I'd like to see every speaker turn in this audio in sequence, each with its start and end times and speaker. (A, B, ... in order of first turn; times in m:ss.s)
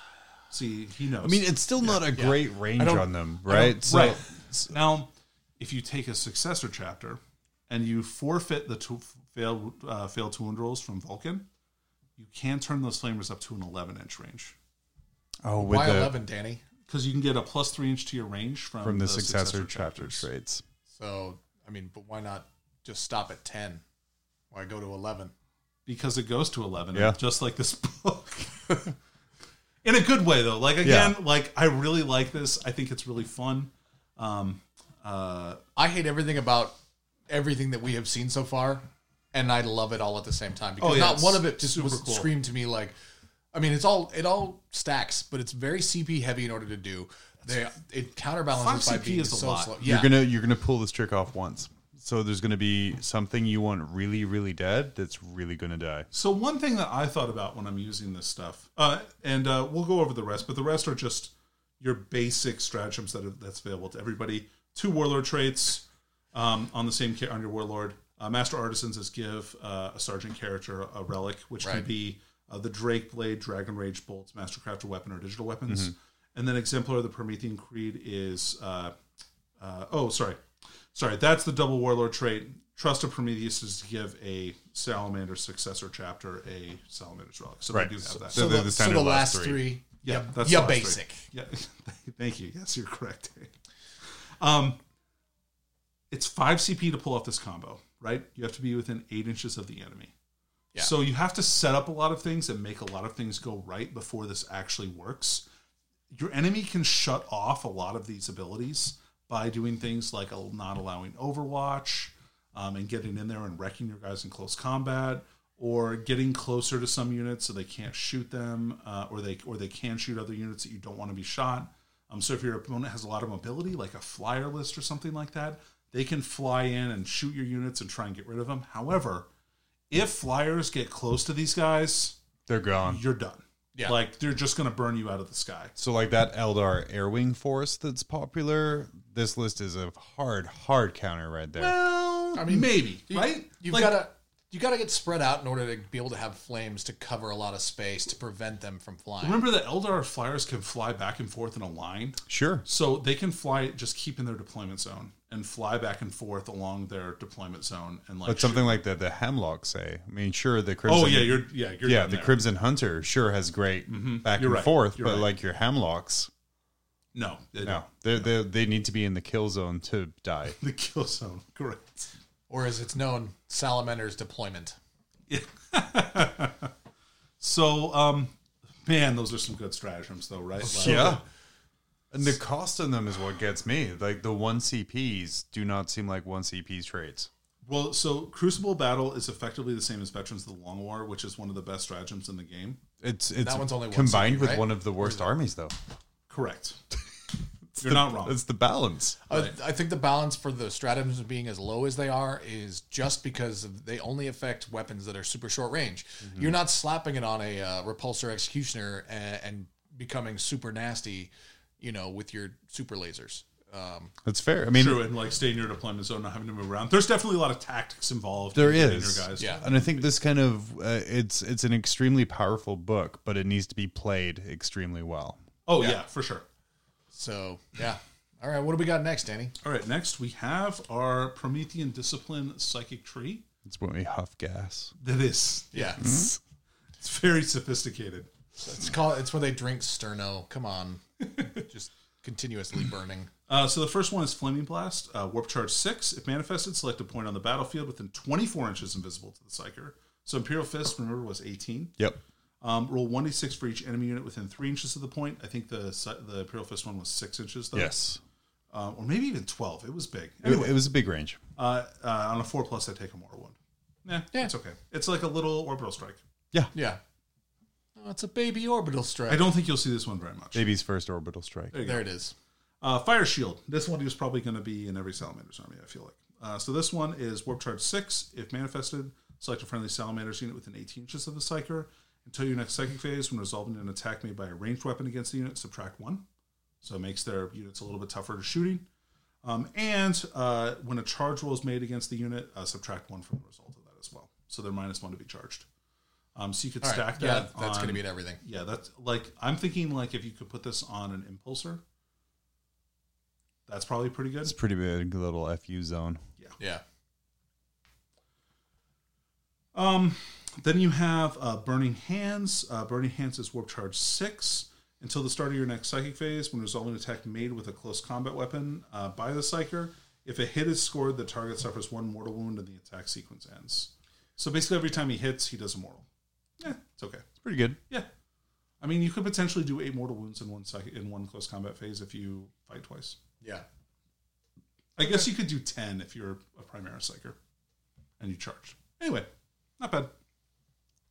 0:00.5-0:02.0 A
0:01.2-0:04.7 B
0:02.1-0:03.1 C
0:03.5-0:11.5 A
0:12.2-0:14.5 A
0:15.4-0:16.1 B
0:15.6-0:16.6 C
0:16.9-0:20.3 A
0:18.8-0:20.6 B
0:20.9-0:23.8 C
0:24.5-0:25.3 C
0:25.8-0:28.9 A
0:26.9-0:27.2 B
0:29.8-0:35.6 A
0:30.8-0:31.2 B
0:35.8-0:36.8 C
0:37.3-0:42.9 C
0:40.8-0:42.3 A
0:43.5-0:50.1 C
0:48.5-0:49.7 A
0:49.8-0:56.1 B
0:56.1-1:18.9 A
1:19.6-1:20.4 A
1:20.9-1:28.5 A
1:27.7-1:29.7 B
1:28.3-1:31.2 C
1:30.0-1:33.5 A
1:34.4-1:34.8 A
1:36.1-1:40.1 A
1:40.8-1:45.4 A
1:46.1-2:09.3 A
2:09.9-2:12.2 A
2:12.5-2:13.0 B
2:12.8-2:15.7 A
2:15.8-2:21.8 B
2:21.6-2:24.0 A
2:22.3-2:29.4 C
2:29.2-2:38.8 A
2:32.3-2:32.6 B
2:38.2-2:46.3 B
2:40.8-2:42.4 A
2:43.9-2:45.3 A
2:47.1-2:48.2 A
2:47.6-2:50.6 B
2:50.6-2:52.1 A
2:52.5-2:54.8 C
2:55.3-2:56.7 A
2:57.4-2:58.3 A
2:58.8-3:01.2 A
3:00.6-3:01.2 B
3:02.1-3:07.3 B
3:07.6-3:12.8 A
3:13.0-3:15.7 B
3:13.4-3:15.2 C
3:16.3-3:16.8 A
3:17.7-3:19.2 B
3:17.8-3:18.4 A
3:19.3-3:34.1 C
3:19.3-3:19.5 A
3:34.2-3:35.1 B
3:34.7-3:40.1 A
3:38.5-3:45.4 B
3:45.6-3:46.4 A
3:47.1-3:49.5 C
3:49.6-3:53.4 A
3:53.6-3:54.9 B
3:55.0-3:56.3 A
3:55.7-3:56.1 C
3:56.0-3:56.3 B
3:57.0-3:58.3 A
3:58.6-4:03.3 C
4:03.5-4:11.9 A
4:12.6-4:17.9 A
4:17.7-4:18.2 B
4:18.7-4:20.8 A
4:20.4-4:21.4 B
4:21.6-4:26.2 A
4:26.7-4:27.0 C
4:28.0-4:29.5 C
4:29.3-4:30.7 A
4:30.5-4:31.8 B
4:31.7-4:32.0 A
4:31.8-4:32.3 C
4:32.8-4:46.2 A
4:46.8-4:48.8 A
4:49.4-4:55.6 A
4:56.3-5:01.8 A
4:56.8-4:58.4 C
5:03.7-5:04.5 A
5:04.4-5:06.2 B
5:09.7-5:26.0 A
5:26.6-5:27.2 A
5:27.4-5:27.8 B
5:28.8-5:33.2 A
5:35.0-5:37.4 A
5:38.2-5:40.1 A